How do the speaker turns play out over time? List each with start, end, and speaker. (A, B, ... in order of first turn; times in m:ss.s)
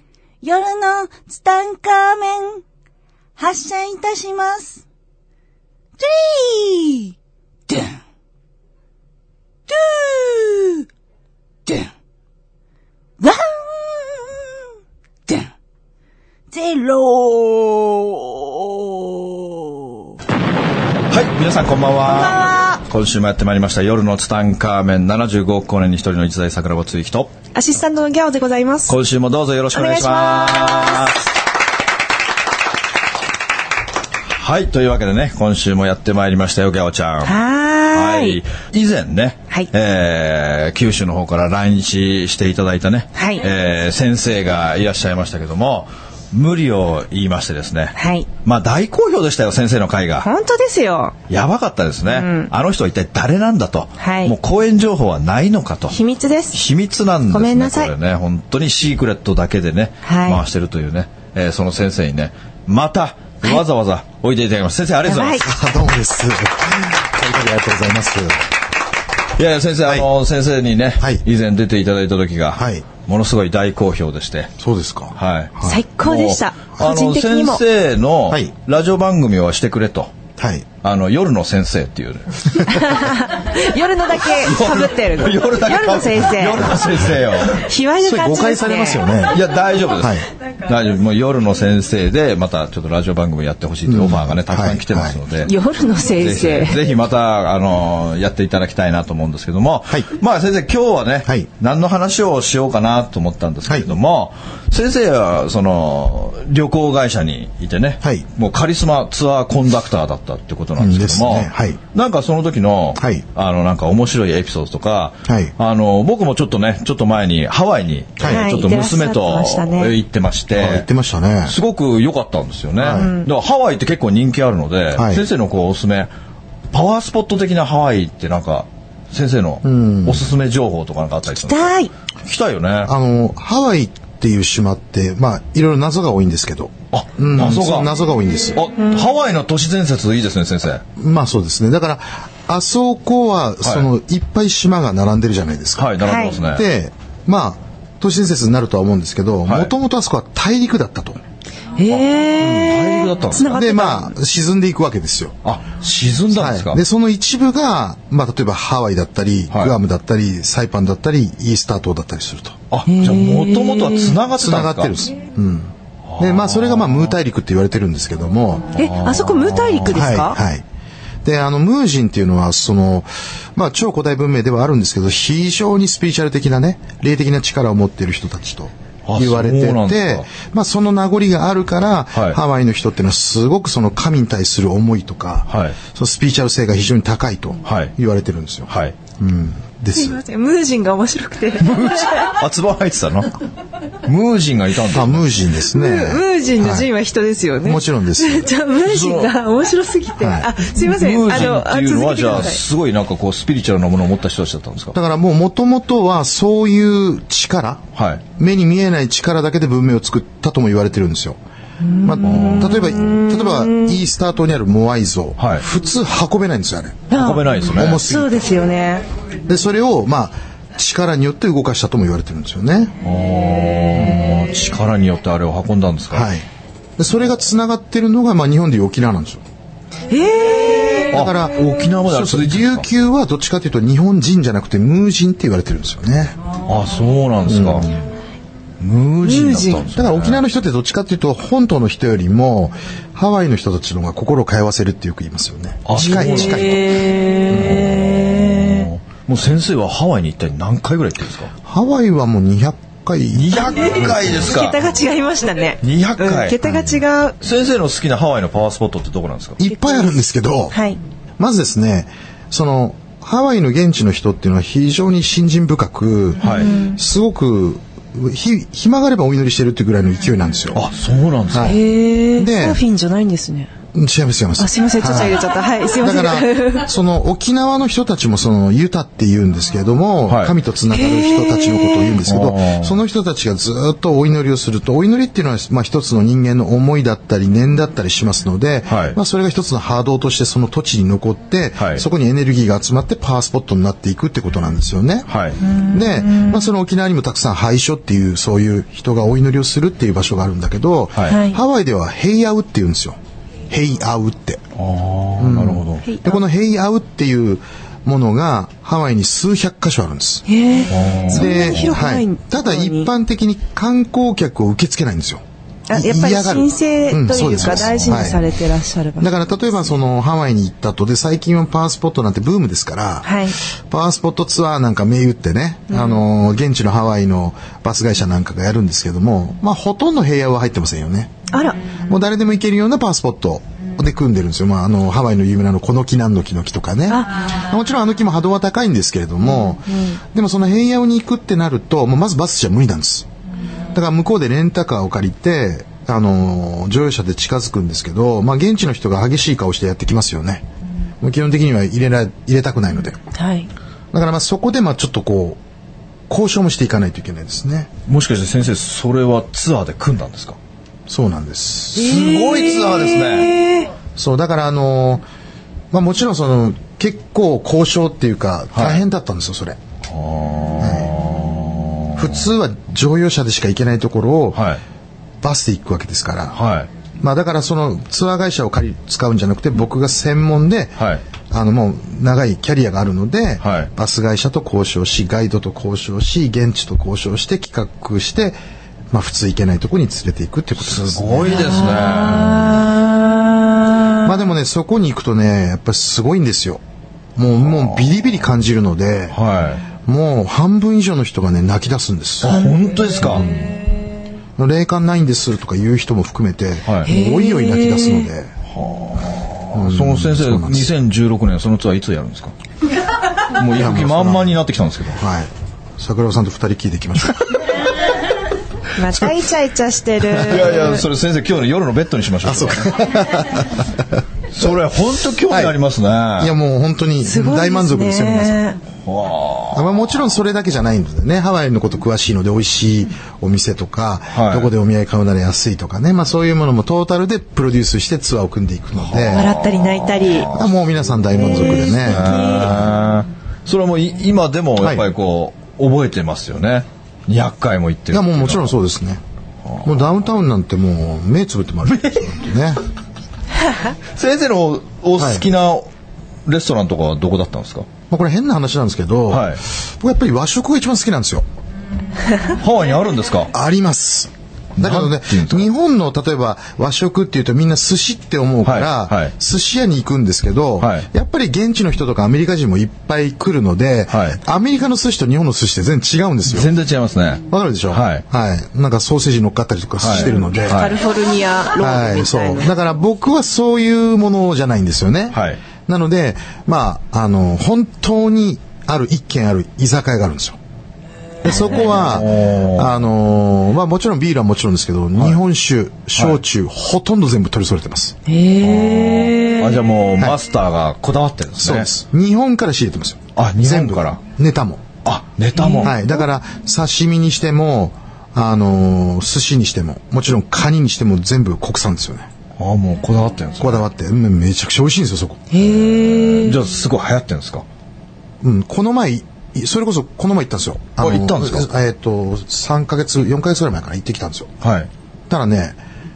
0:00.4-0:02.6 A
0:03.4-0:04.8 A
0:06.0-0:07.1 A
0:07.7-0:08.0 A
0:09.7-0:10.9 A
0:11.7-0:11.9 A
0:13.2-0:14.5 A
0:16.5-0:20.2 A
0:21.1-0:27.3 B
0:22.1-0:22.8 C
0:27.6-0:28.9 C
0:28.9-0:31.2 B
0:29.7-0:31.2 C
0:34.4-0:37.4 B
0:37.2-0:38.4 C
0:37.9-0:50.3 B
0:43.2-0:43.4 C
0:48.0-0:48.3 C
0:50.2-0:51.2 C
0:51.3-0:56.0 B
0:52.1-0:52.5 C
0:54.0-0:54.3 C
0:55.9-0:56.6 C
0:56.5-1:05.5 B
0:57.3-0:57.9 C
1:00.0-1:00.4 C
1:05.0-1:05.5 C
1:05.4-1:08.5 D
1:09.4-1:14.5 B
1:12.6-1:12.9 D
1:14.6-1:15.8 D
1:15.1-1:20.1 B
1:15.6-1:17.6 C
1:20.4-1:20.7 D
1:20.8-1:22.9 B
1:22.7-1:26.8 C
1:24.3-1:27.7 B
1:27.4-1:29.0 C
1:28.0-1:30.2 D
1:29.3-1:35.5 B
1:33.9-1:35.2 D
1:35.4-1:36.8 C
1:36.2-2:00.9 B
1:50.8-1:51.8 D
1:53.0-1:53.2 D
1:55.3-1:55.5 D
1:58.2-1:58.5 D
1:58.2-2:00.0 C
2:00.5-2:01.6 D
2:01.5-2:06.1 B
2:02.8-2:03.1 D
2:02.9-2:03.3 C
2:05.0-2:05.2 D
2:06.7-2:12.9 B
2:09.6-2:10.3 D
2:11.4-2:11.9 C
2:12.9-2:18.6 D
2:16.9-2:17.9 B
2:18.6-2:20.8 B
2:21.0-2:31.2 D
2:23.6-2:23.9 B
2:25.8-2:26.6 B
2:26.0-2:26.3 C
2:29.5-2:29.7 B
2:31.8-2:34.1 C
2:31.9-2:33.5 B
2:32.4-2:32.7 D
2:33.4-2:35.4 D
2:35.4-2:36.8 B
2:36.3-2:42.6 D
2:39.5-2:39.8 B
2:42.7-2:45.0 B
2:42.9-2:44.2 C
2:44.3-2:48.8 D
2:46.1-2:47.1 B
2:48.8-2:49.9 B
2:48.8-2:50.4 C
2:49.9-2:50.6 D
2:51.2-3:10.2 D
2:59.1-3:00.3 B
3:02.1-3:02.4 B
3:05.5-3:05.8 B
3:07.6-3:07.9 B
3:08.7-3:09.0 B
3:10.0-3:12.4 C
3:11.6-3:13.4 B
3:14.0-3:15.4 B
3:14.9-3:16.9 D
3:15.7-3:22.6 C
3:17.6-3:18.5 D
3:18.8-3:19.3 B
3:20.2-3:20.5 D
3:20.8-3:25.0 B
3:24.9-3:27.8 D
3:27.9-3:28.2 B
3:28.4-3:31.4 D
3:31.8-3:34.0 C
3:32.0-3:37.1 D
3:32.2-3:32.8 B
3:35.4-3:35.6 B
3:37.1-3:39.0 C
3:37.1-3:38.0 B
3:37.8-3:38.6 D
3:39.5-3:43.0 D
3:43.0-3:46.3 B
3:46.1-3:46.4 D
3:47.0-3:49.4 D
3:50.1-3:51.1 C
3:51.1-3:56.4 D
3:51.1-3:52.9 B
3:56.7-3:58.0 B
3:57.5-3:57.9 D
3:58.8-4:00.4 B
3:59.2-3:59.9 C
3:59.9-4:07.0 D
4:05.8-4:06.8 B
4:06.0-4:08.9 C
4:07.5-4:11.5 B
4:07.6-4:07.8 D
4:11.6-4:14.4 D
4:13.3-4:14.8 B
4:13.7-4:17.4 C
4:15.8-4:19.6 B
4:19.6-4:20.8 D
4:19.7-4:20.2 C
4:20.7-4:21.0 C
4:21.4-4:30.8 D
4:26.4-4:26.7 B
4:26.4-4:27.0 C
4:30.7-4:31.8 B
4:31.5-4:31.8 D
4:31.6-4:33.7 C
4:32.4-4:32.8 D
4:33.9-4:35.4 D
4:34.6-4:36.9 C
4:36.0-5:03.2 D
4:40.3-4:40.6 B
4:40.9-4:42.2 C
4:42.3-4:43.0 B
4:48.9-4:49.2 B
4:51.8-4:52.0 B
4:55.3-4:55.6 B
4:55.6-4:56.6 C
5:01.3-5:01.6 C
5:03.7-5:04.6 D
5:04.8-5:06.2 B
5:05.4-5:10.5 D
5:06.1-5:06.3 C
5:10.5-5:13.1 C
5:10.9-5:11.9 B
5:11.3-5:18.4 D
5:15.9-5:19.3 C
5:17.5-5:18.4 B
5:19.2-5:31.3 D
5:23.2-5:23.6 C
5:25.9-5:26.2 C
5:31.5-5:31.9 C
5:32.1-5:43.3 D
5:37.1-5:37.5 C
5:39.5-5:40.2 C
5:43.9-5:50.6 D
5:51.2-5:53.2 D
5:53.3-5:53.7 C
5:54.1-5:55.6 D
5:56.3-5:57.9 D
5:58.1-6:00.6 B
6:01.1-6:02.3 D
6:02.0-6:03.6 B
6:02.0-6:03.9 C
6:04.2-6:05.2 D
6:05.9-6:09.8 D
6:08.7-6:09.0 B
6:10.1-6:12.4 B
6:10.8-6:11.2 D
6:12.2-6:14.6 D
6:14.5-6:14.8 B
6:15.4-6:16.6 D
6:16.5-6:16.9 B
6:17.2-6:28.6 D
6:21.0-6:21.2 B
6:23.6-6:23.9 B
6:29.1-6:32.1 D
6:30.8-6:32.9 B
6:31.6-6:34.3 C
6:34.2-6:36.8 D
6:37.4-6:39.4 D
6:37.6-6:38.0 B
6:39.3-6:39.9 B
6:39.9-6:42.6 D
6:42.4-6:43.5 B
6:42.5-6:43.7 C
6:43.2-6:43.6 D
6:44.6-6:48.5 D
6:47.0-6:48.3 C
6:48.7-6:52.6 B
6:49.7-6:50.9 D
6:53.5-6:55.2 B
6:53.8-6:54.6 D
6:55.1-6:57.8 D
6:59.0-7:01.0 C
7:00.4-7:03.0 B
7:02.4-7:04.2 D
7:04.5-7:06.5 B
7:05.5-7:05.8 D
7:06.4-7:08.6 D
7:07.2-7:08.8 C
7:09.0-7:09.9 B
7:09.7-7:19.6 D
7:14.3-7:14.7 B
7:19.0-7:20.7 B
7:19.3-7:20.5 C
7:20.5-7:22.5 D
7:21.3-7:28.7 B
7:21.4-7:22.9 C
7:24.8-7:25.1 D
7:28.1-7:29.2 D
7:29.7-7:29.9 B
7:29.8-7:32.8 D
7:31.9-7:32.3 B
7:34.2-7:35.9 B
7:35.2-7:35.5 D
7:36.5-7:37.9 B
7:38.1-7:41.4 D
7:39.3-7:39.6 B
7:42.5-7:43.5 B
7:43.5-7:56.7 D
7:44.8-7:45.7 B
7:48.6-7:49.3 B
7:50.8-7:51.1 B
7:54.1-7:54.4 B
7:56.5-7:58.2 B
7:57.5-8:00.9 D
8:00.0-8:01.0 B
8:00.1-8:02.7 C
8:01.8-8:10.6 D
8:05.3-8:05.6 B
8:11.4-8:18.2 D
8:11.5-8:13.1 B
8:18.3-8:19.9 C
8:18.6-8:21.9 B
8:21.6-8:24.9 D
8:23.4-8:24.2 B
8:25.0-8:25.9 B
8:25.6-8:26.1 C
8:25.8-8:32.3 D
8:32.6-8:33.8 B
8:33.6-8:35.4 D
8:35.5-8:36.6 C
8:35.5-8:37.6 B
8:38.4-8:44.5 D
8:41.0-8:41.7 B
8:44.6-8:44.9 B
8:45.3-8:45.8 D